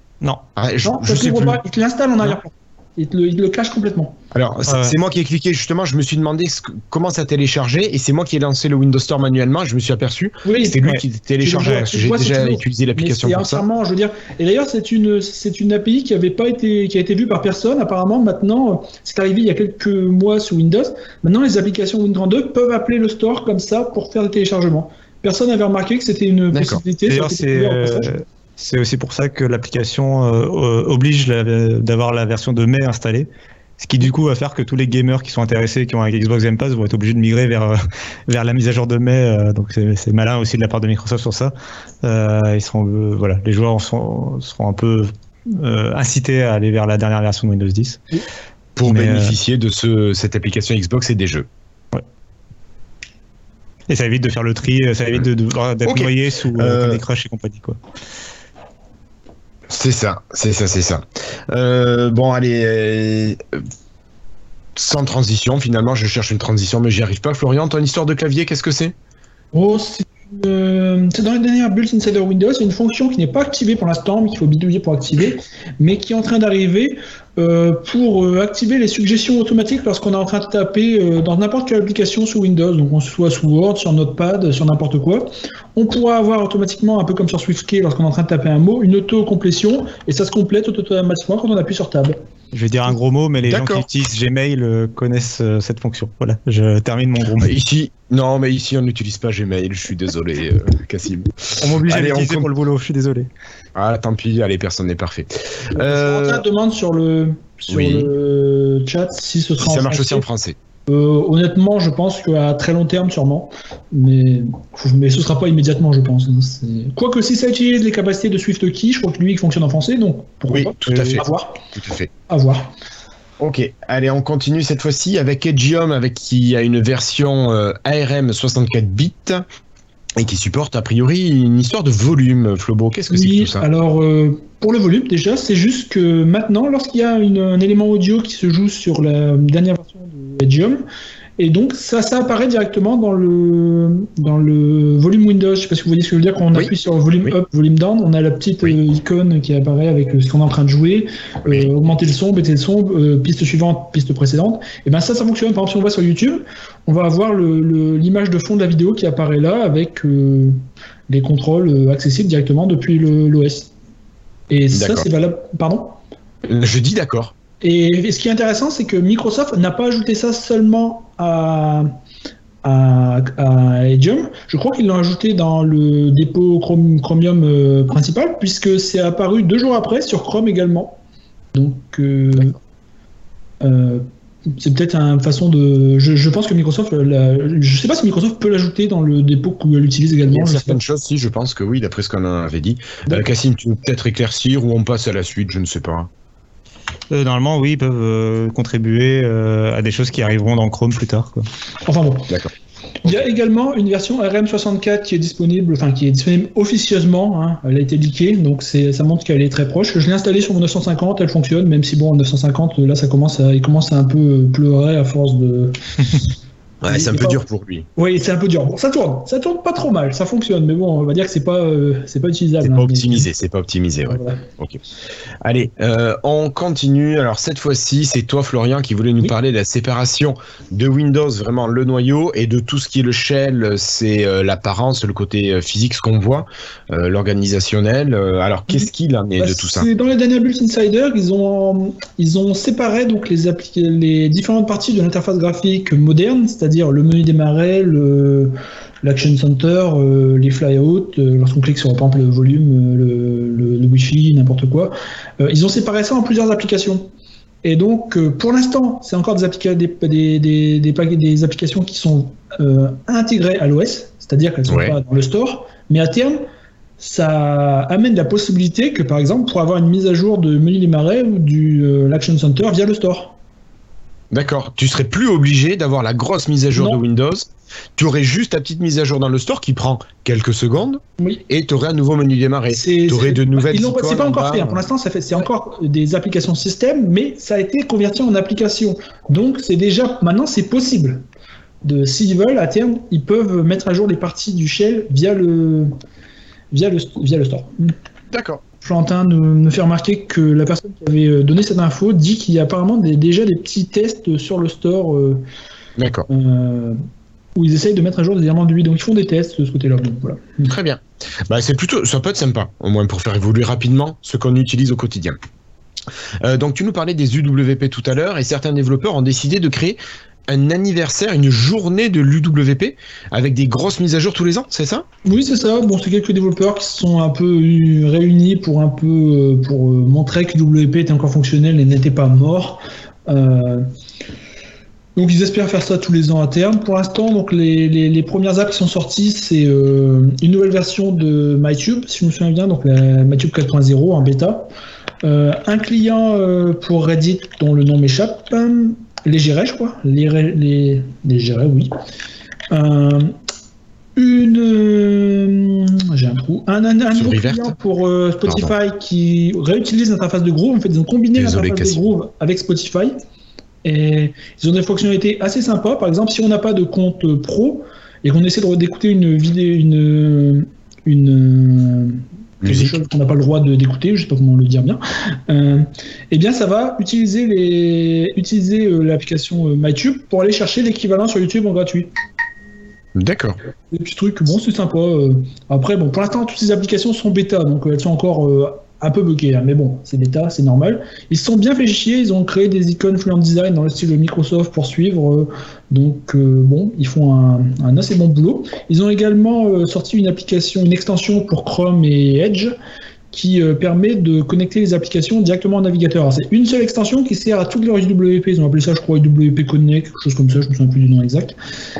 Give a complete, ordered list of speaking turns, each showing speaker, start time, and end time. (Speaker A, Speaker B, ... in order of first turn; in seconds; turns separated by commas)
Speaker A: 0.6-1.6, Speaker B: 0.8-4.2, Speaker A: 4.3-13.6, Speaker C: 4.7-5.0, Speaker B: 10.4-10.8, Speaker B: 11.4-28.1, Speaker A: 26.5-26.8, Speaker C: 27.1-48.0, Speaker A: 48.8-51.5, Speaker C: 48.8-49.3, Speaker C: 53.9-57.8, Speaker A: 55.8-57.0, Speaker A: 59.7-63.6, Speaker A: 64.8-68.9, Speaker B: 69.5-92.2, Speaker C: 92.5-97.5, Speaker A: 93.5-93.8, Speaker A: 97.4-102.5, Speaker C: 101.6-103.3, Speaker A: 103.7-106.4, Speaker B: 105.8-110.2, Speaker A: 107.7-108.1, Speaker A: 109.6-110.5, Speaker B: 110.9-121.6, Speaker A: 120.5-122.1, Speaker C: 120.8-121.2, Speaker B: 122.3-122.7, Speaker A: 123.4-129.4, Speaker A: 130.2-133.7, Speaker B: 133.1-140.8, Speaker B: 141.4-163.7, Speaker A: 151.4-151.7, Speaker B: 164.5-166.0, Speaker A: 164.7-165.1, Speaker A: 166.4-167.3, Speaker B: 167.6-171.9, Speaker B: 172.6-181.0, Speaker B: 181.5-182.6, Speaker B: 183.6-184.0, Speaker B: 184.6-190.8, Speaker A: 190.3-196.1, Speaker C: 197.1-201.5, Speaker B: 201.8-202.4, Speaker B: 203.0-216.2, Speaker A: 216.8-217.9, Speaker B: 216.8-217.4, Speaker B: 217.9-223.3, Speaker A: 222.6-224.8, Speaker B: 224.1-224.4, Speaker A: 225.4-239.9, Speaker B: 239.4-257.1, Speaker B: 257.6-266.4, Speaker A: 264.7-265.0, Speaker B: 267.0-273.3, Speaker A: 274.3-284.8, Speaker B: 276.7-277.0, Speaker B: 282.7-291.2, Speaker B: 291.8-295.9, Speaker B: 296.7-297.9, Speaker A: 298.3-298.6, Speaker B: 298.8-305.4, Speaker A: 306.0-306.3, Speaker B: 306.3-307.0, Speaker B: 307.5-310.7, Speaker A: 310.6-315.4, Speaker A: 316.4-325.0, Speaker B: 325.2-333.9, Speaker B: 335.1-344.7, Speaker B: 345.2-351.9, Speaker B: 352.7-353.3, Speaker B: 354.1-363.2, Speaker A: 357.1-357.7, Speaker A: 358.4-358.7, Speaker A: 361.3-362.0, Speaker B: 363.8-382.1, Speaker A: 372.6-373.0, Speaker A: 383.1-383.6, Speaker B: 383.9-402.7, Speaker B: 403.3-411.5